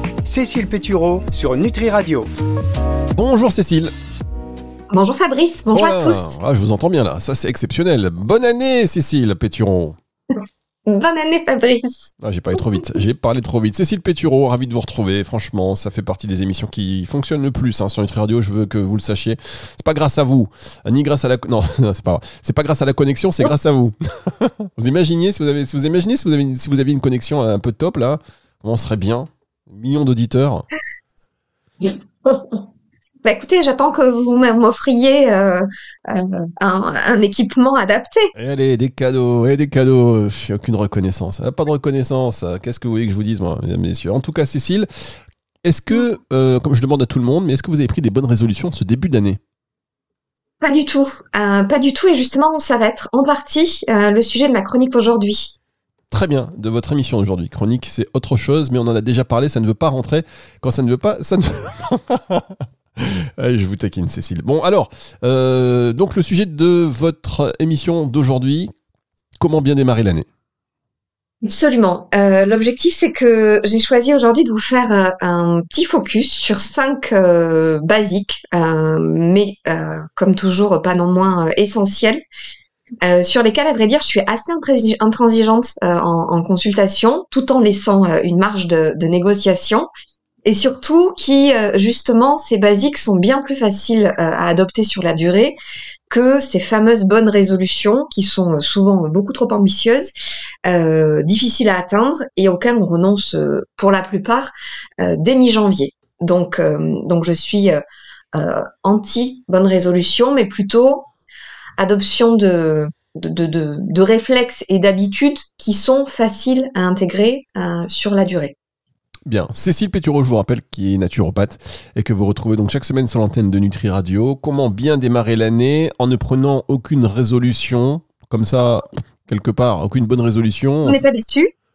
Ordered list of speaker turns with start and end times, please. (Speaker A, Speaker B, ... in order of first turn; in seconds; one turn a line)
Speaker A: 0.2-2.3
Speaker B: 3.1-3.9
Speaker C: 4.9-6.4
Speaker B: 5.7-10.0
Speaker C: 10.9-12.1
Speaker B: 12.2-30.7
Speaker C: 31.9-32.6
Speaker C: 33.2-38.3
Speaker B: 38.4-44.9
Speaker B: 45.6-49.4
Speaker C: 50.6-55.5
Speaker B: 56.1-68.7
Speaker B: 69.4-70.3
Speaker C: 71.4-82.2
Speaker C: 83.0-89.9
Speaker C: 90.5-95.6
Speaker C: 96.1-100.1
Speaker C: 100.7-107.8
Speaker C: 108.3-111.1
Speaker C: 111.8-118.5
Speaker B: 119.3-131.0
Speaker C: 130.8-131.5